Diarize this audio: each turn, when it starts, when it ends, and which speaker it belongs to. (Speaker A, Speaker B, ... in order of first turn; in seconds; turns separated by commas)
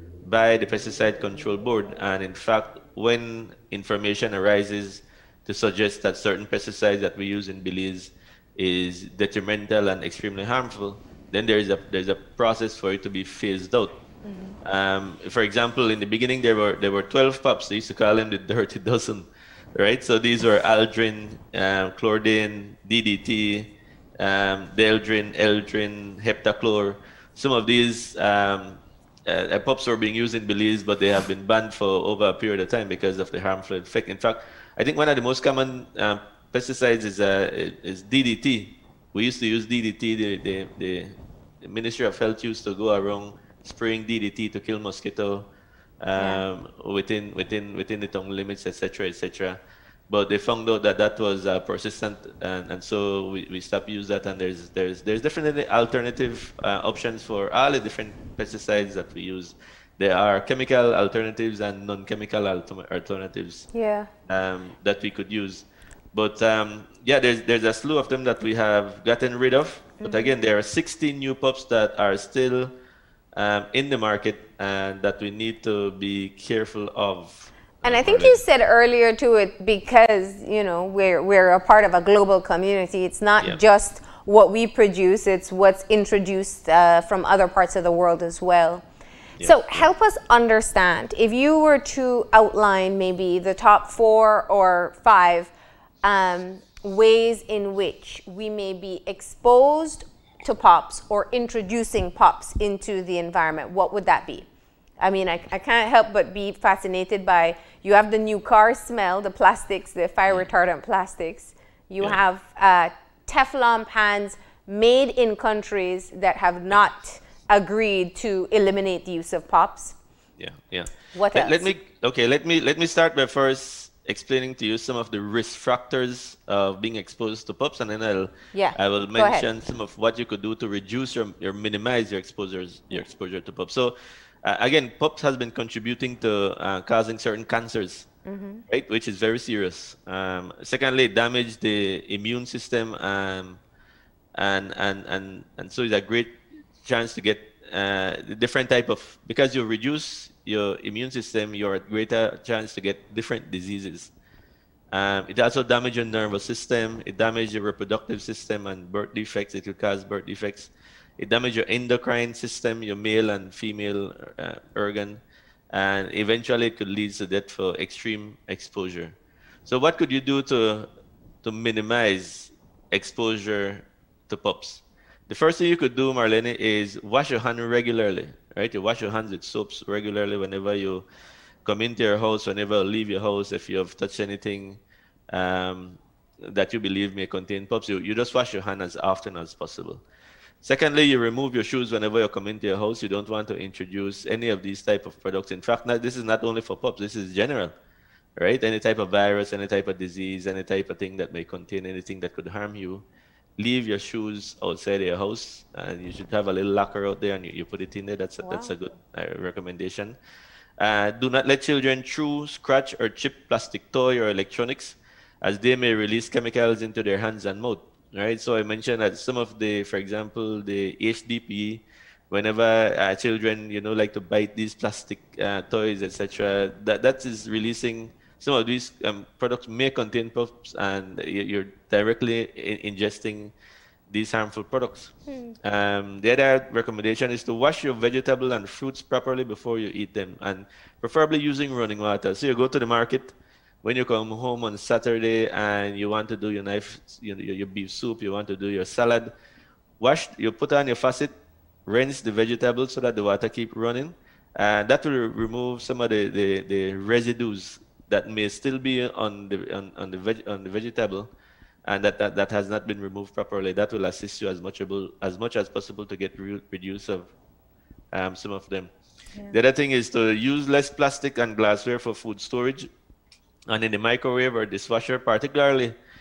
Speaker A: 0.2-14.0, Speaker B: 14.2-14.6, Speaker A: 14.6-45.5, Speaker A: 46.0-63.7, Speaker B: 46.2-46.4, Speaker B: 63.7-64.1, Speaker A: 64.3-72.7, Speaker B: 70.0-70.3, Speaker A: 73.3-78.4, Speaker B: 77.8-88.8, Speaker A: 89.4-89.9, Speaker B: 89.4-95.5, Speaker B: 96.0-104.5, Speaker B: 105.0-120.0, Speaker A: 120.4-138.1, Speaker B: 121.1-121.7, Speaker B: 128.5-129.4, Speaker B: 138.2-138.6, Speaker A: 138.7-143.6, Speaker A: 144.3-154.1, Speaker A: 154.9-165.2, Speaker A: 165.7-170.9, Speaker A: 171.4-181.1, Speaker A: 181.6-190.0, Speaker A: 190.6-197.7, Speaker A: 198.4-203.0, Speaker A: 203.6-210.2, Speaker B: 208.4-208.7, Speaker A: 210.8-233.5, Speaker A: 234.1-249.3, Speaker B: 235.3-235.5, Speaker A: 250.0-251.3, Speaker A: 251.8-261.3, Speaker A: 261.9-267.3, Speaker A: 268.1-268.9, Speaker A: 269.5-272.9, Speaker A: 273.7-275.9